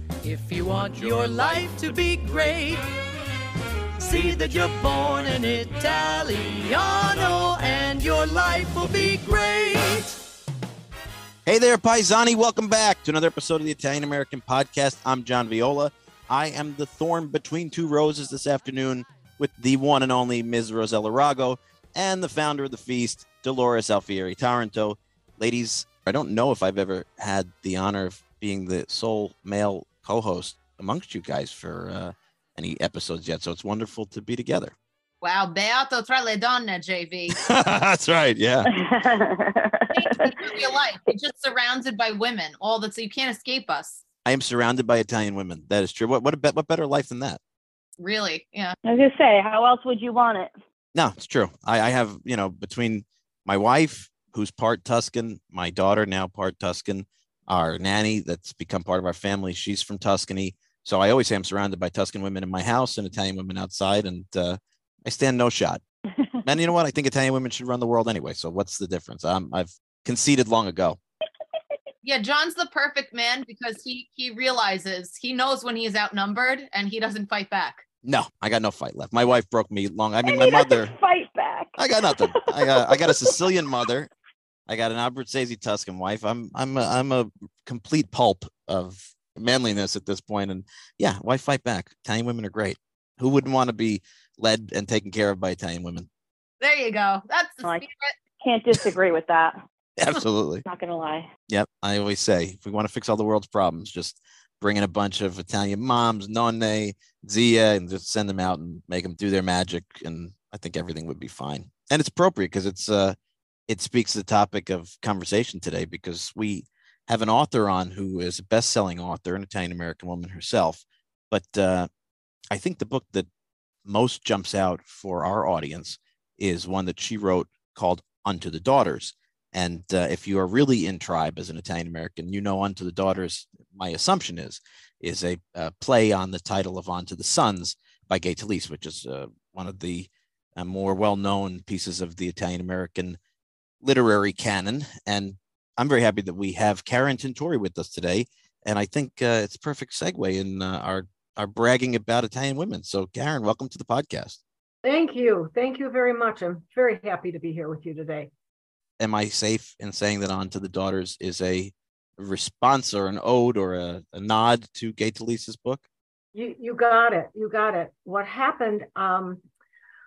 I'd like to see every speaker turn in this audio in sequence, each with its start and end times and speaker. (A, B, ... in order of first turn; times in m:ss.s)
0:00.2-0:02.8 A
0:04.0-0:10.2 A
0:11.4-0:34.7 B
0:35.2-0:37.4 C
0:37.3-0:38.7 B
0:38.7-0:40.7 D
0:39.9-0:44.0 C
0:44.2-0:47.4 B
0:48.0-0:48.8 C
0:48.8-0:50.5 D
0:50.9-1:05.8 B
1:06.4-1:11.0 B
1:12.0-1:17.8 C
1:18.0-1:20.9 B
1:20.2-1:23.3 D
1:21.8-1:24.1 B
1:24.7-1:36.1 B
1:36.6-1:38.1 C
1:38.4-1:39.6 D
1:40.0-1:40.6 B
1:40.6-1:41.3 D
1:41.5-1:53.2 B
1:53.7-2:01.9 B
2:02.5-2:03.3 B
2:03.8-2:23.2 B
2:23.8-2:34.4 B
2:34.8-2:38.3 E
2:39.0-2:45.8 B
2:46.3-2:49.4 E